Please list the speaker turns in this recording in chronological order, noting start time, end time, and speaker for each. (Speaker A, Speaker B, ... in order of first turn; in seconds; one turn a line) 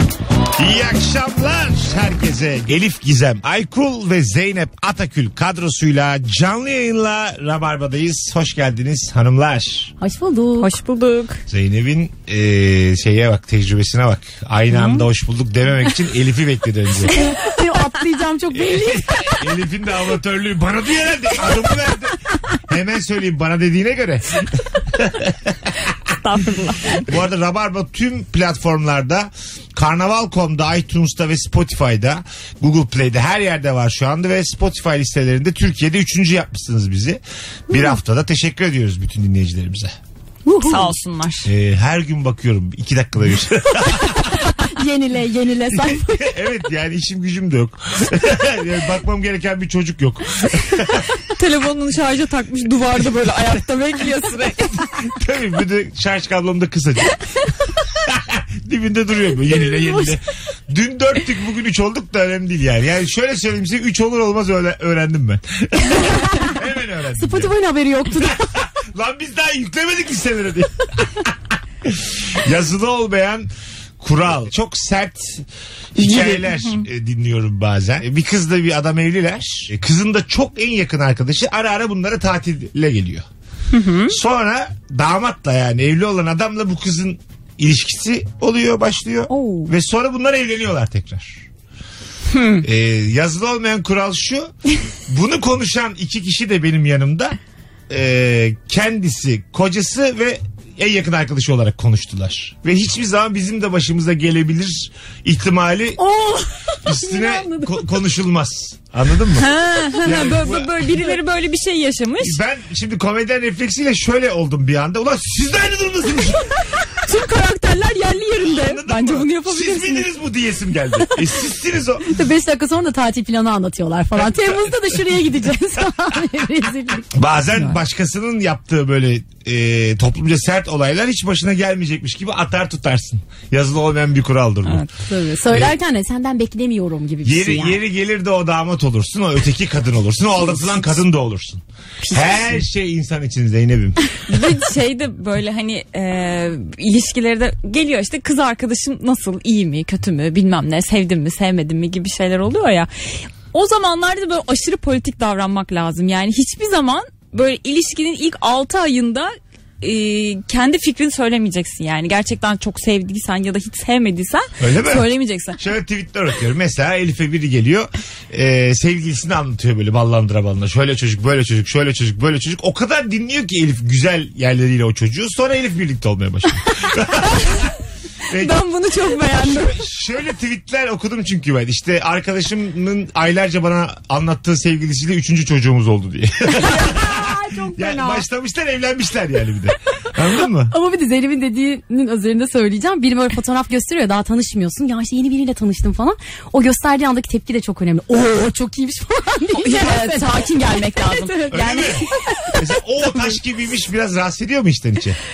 Speaker A: 0.6-9.9
Speaker B: 10.0-10.7
Speaker C: 10.6-11.4
Speaker A: 11.5-17.1
Speaker C: 14.7-15.0
Speaker B: 17.1-19.4
Speaker A: 18.6-25.6
Speaker C: 26.2-27.1
Speaker A: 27.1-39.9
Speaker B: 40.5-41.0
Speaker C: 40.6-41.5
Speaker A: 41.5-44.3
Speaker B: 43.8-46.3
Speaker A: 45.7-51.0
Speaker C: 51.3-54.8
Speaker A: 54.9-57.2
Speaker A: 57.9-67.5
Speaker B: 59.7-60.1
Speaker B: 67.2-68.5
Speaker A: 68.1-83.3
Speaker C: 76.1-76.8
Speaker C: 83.7-84.2
Speaker A: 84.1-91.4
Speaker C: 89.3-89.7
Speaker C: 92.3-92.6
Speaker A: 92.6-94.5
Speaker A: 95.1-97.4
Speaker A: 97.9-106.0
Speaker B: 106.0-107.8
Speaker A: 106.8-109.5
Speaker C: 109.3-112.4
Speaker A: 110.0-110.7
Speaker A: 112.2-116.5
Speaker C: 117.0-120.1
Speaker A: 118.4-122.1
Speaker B: 122.1-127.1
Speaker A: 127.1-134.8
Speaker C: 134.7-134.9
Speaker B: 135.1-137.8
Speaker A: 137.2-144.0
Speaker C: 144.3-165.6
Speaker A: 164.6-177.7
Speaker A: 178.3-178.6
Speaker C: 178.3-179.8
Speaker A: 179.3-190.7
Speaker B: 186.6-188.2
Speaker B: 190.7-202.6
Speaker C: 199.5-202.5
Speaker A: 201.5-202.1
Speaker A: 202.6-205.2